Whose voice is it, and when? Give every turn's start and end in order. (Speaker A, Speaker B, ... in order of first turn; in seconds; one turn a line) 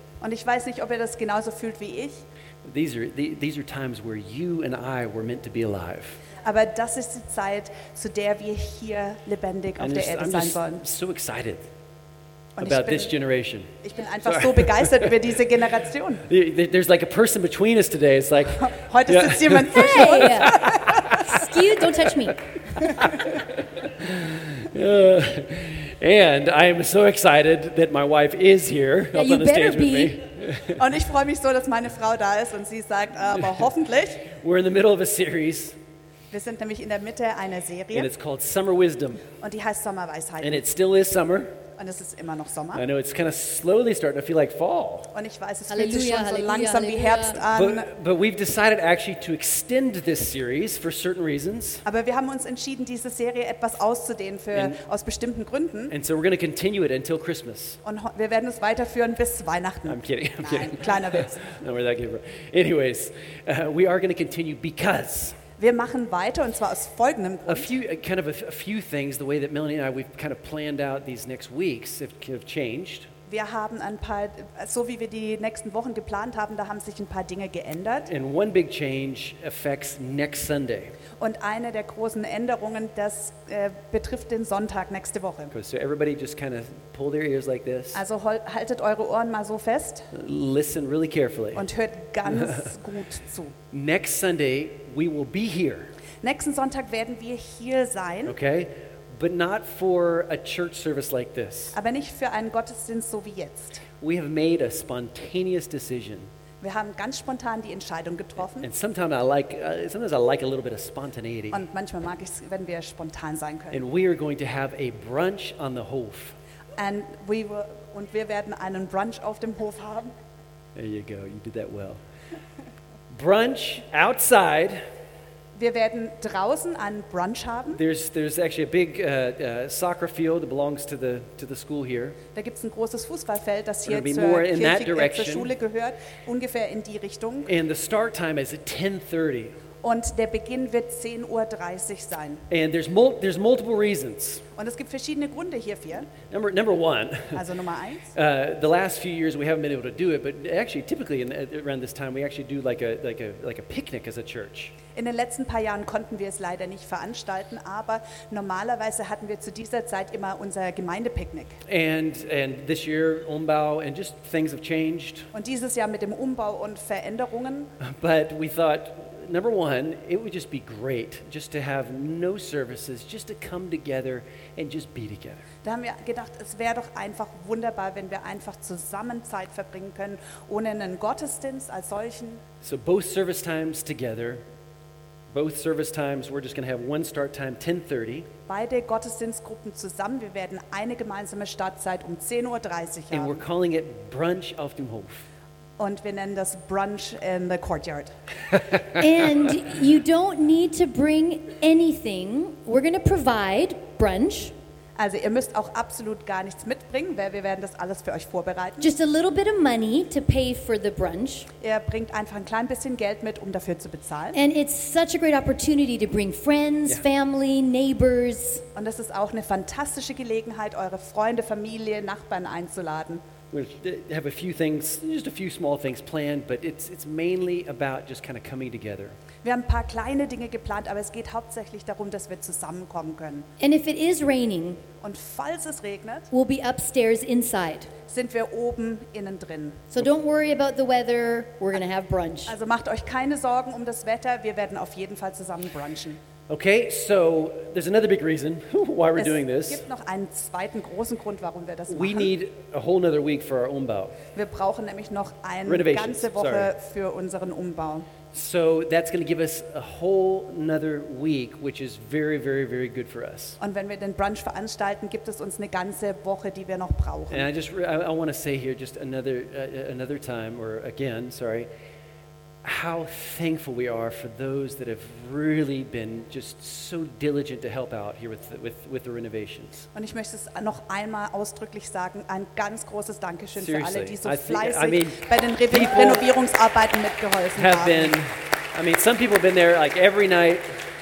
Speaker A: 0.2-2.2
Speaker B: 2.6-6.2
Speaker A: 6.4-10.8
Speaker B: 9.8-11.7
Speaker A: 12.6-13.1
Speaker B: 12.6-13.7
Speaker A: 13.8-16.2
Speaker B: 14.2-15.1
Speaker B: 16.3-21.4
Speaker A: 18.6-21.1
Speaker C: 19.7-22.4
Speaker B: 22.8-30.8
Speaker C: 29.1-30.1
Speaker A: 30.8-34.3
Speaker B: 34.3-35.8
Speaker A: 36.3-38.1
Speaker B: 37.9-39.2
Speaker A: 39.3-40.6
Speaker B: 40.4-41.6
Speaker A: 41.8-42.8
Speaker B: 42.7-45.1
Speaker A: 45.1-47.9
Speaker C: 45.7-47.4
Speaker B: 47.5-51.8
Speaker A: 51.8-55.9
Speaker B: 54.5-54.8
Speaker B: 55.9-57.8
Speaker A: 57.8-61.5
Speaker B: 59.9-65.4
Speaker A: 65.6-67.7
Speaker B: 67.5-73.1
Speaker A: 73.3-78.1
Speaker B: 78.1-81.0
Speaker A: 81.2-85.5
Speaker B: 85.5-88.0
Speaker A: 87.9-90.1
Speaker B: 90.1-91.7
Speaker A: 91.5-93.5
Speaker B: 92.2-92.7
Speaker B: 93.7-95.9
Speaker A: 96.2-98.4
Speaker B: 98.2-101.8
Speaker A: 101.7-103.8
Speaker B: 104.0-106.3
Speaker A: 106.6-108.7
Speaker B: 108.6-111.7
Speaker A: 111.5-113.8
Speaker B: 113.7-116.4
Speaker A: 116.8-120.1
Speaker B: 120.8-122.0
Speaker B: 123.1-124.9
Speaker A: 125.5-127.8
Speaker B: 127.7-132.2
Speaker A: 132.3-137.5
Speaker B: 133.8-135.5
Speaker B: 137.4-139.6
Speaker A: 139.8-142.4
Speaker B: 142.5-144.4
Speaker A: 144.5-146.1
Speaker B: 146.2-147.4
Speaker A: 147.3-148.1
Speaker B: 148.1-154.8
Speaker A: 154.9-161.6
Speaker B: 161.7-165.3
Speaker A: 165.3-167.7
Speaker B: 167.8-175.4
Speaker A: 175.6-182.4
Speaker B: 182.6-184.4
Speaker B: 185.3-188.3
Speaker A: 188.5-193.4
Speaker B: 193.1-195.3
Speaker A: 195.8-198.1
Speaker C: 199.0-204.5
Speaker A: 205.0-208.9
Speaker C: 208.8-211.5
Speaker A: 211.6-214.4
Speaker C: 214.3-218.6
Speaker A: 218.7-223.2
Speaker B: 223.5-229.2
Speaker A: 229.4-233.5
Speaker C: 233.6-234.8
Speaker A: 235.0-236.3
Speaker C: 236.3-237.9
Speaker A: 238.0-239.9
Speaker C: 239.9-242.5
Speaker A: 242.5-246.2
Speaker B: 246.5-249.8
Speaker A: 249.2-252.3
Speaker B: 251.9-254.2
Speaker A: 254.3-258.1
Speaker B: 255.7-256.7
Speaker B: 258.3-263.6
Speaker A: 263.6-267.5
Speaker B: 267.3-271.7
Speaker B: 272.6-279.9
Speaker A: 279.9-288.1
Speaker B: 283.6-286.2
Speaker B: 287.6-290.8